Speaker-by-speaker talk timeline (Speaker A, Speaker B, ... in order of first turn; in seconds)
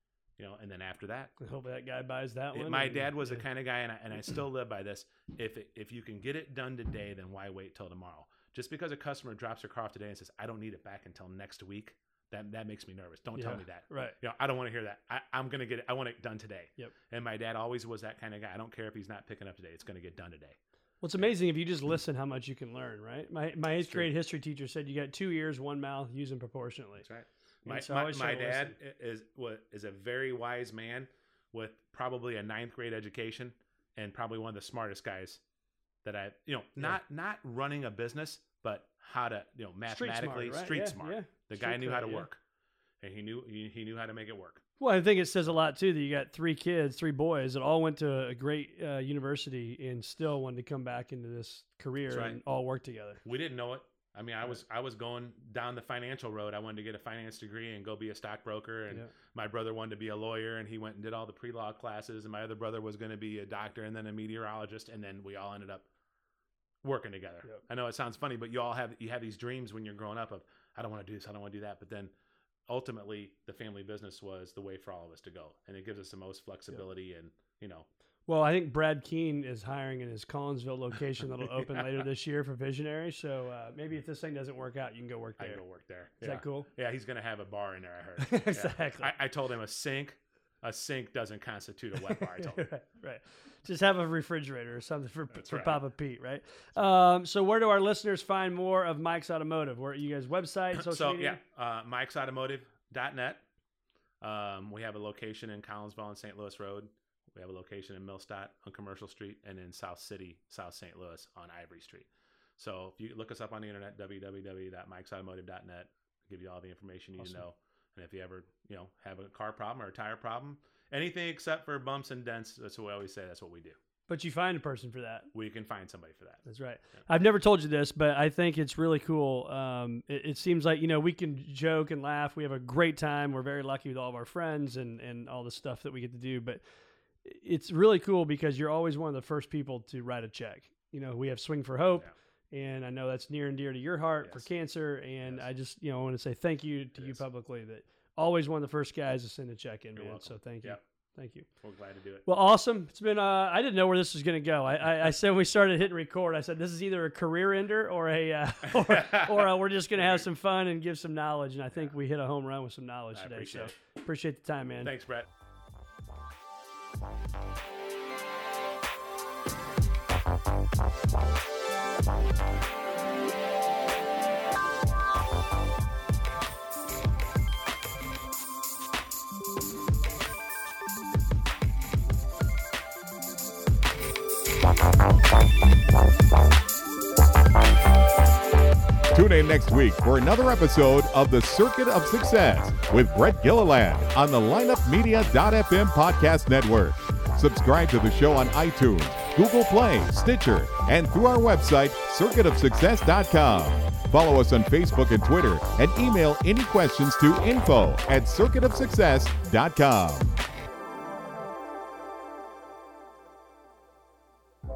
Speaker A: 0.4-1.4, 2.5-20.6, 23.8-24.1, 27.0-35.4, 36.0-42.4, 43.0-44.6, 52.1-52.4, 53.2-65.9, 66.8-72.1, 72.7-77.9, 85.4-92.7, 95.3-95.8, 100.8-103.4, 104.2-123.8, 125.3-127.0, 149.9-150.8, 151.6-152.3, 158.8-160.2, 163.1-163.7, 164.8-165.3
Speaker B: 1.4-3.4, 13.4-14.2, 21.0-27.1, 27.6-28.7, 39.9-42.3, 44.8-53.2, 78.3-85.6, 86.2-86.7, 88.2-89.1, 92.3-101.4, 117.2-117.4, 124.1-125.3, 126.5-136.6, 137.2-151.4, 152.2-164.9
Speaker C: 189.1-210.3